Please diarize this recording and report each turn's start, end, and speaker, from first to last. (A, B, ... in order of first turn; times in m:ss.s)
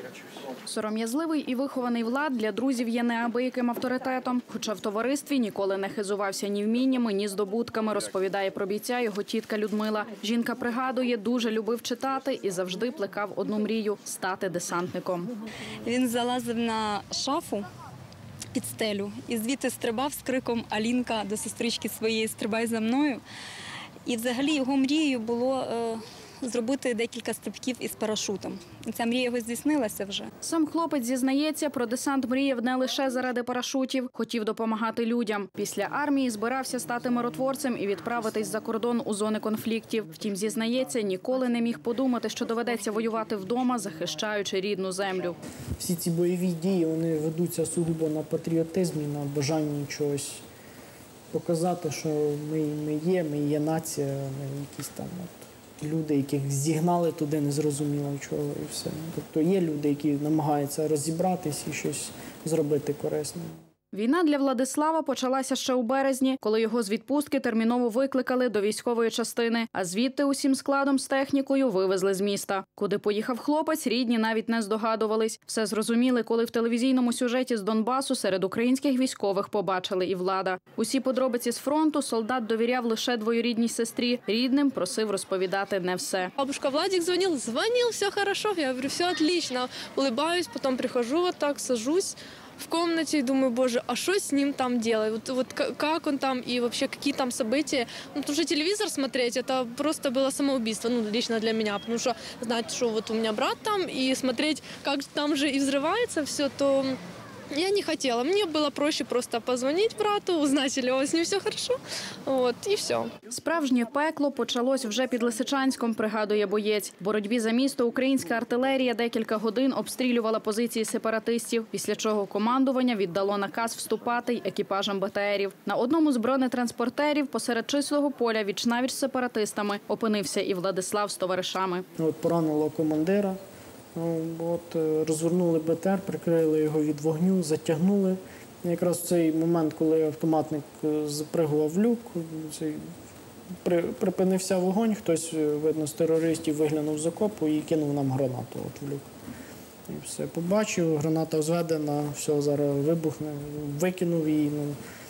0:00.6-0:15.3 A
0:15.8-0:17.7 B
0:18.5-0:23.2 B
0:24.0-0:30.3 B
0:30.4-0:45.4 A
0:45.8-0:50.4 C
0:51.3-1:03.6 C
1:03.9-1:26.3 A
1:26.4-1:47.0 D
1:47.5-1:53.1 D
1:53.3-2:11.8 A
2:12.0-2:13.4 C
2:13.9-2:22.9 C
2:23.6-2:29.1 C
2:29.9-2:34.8 C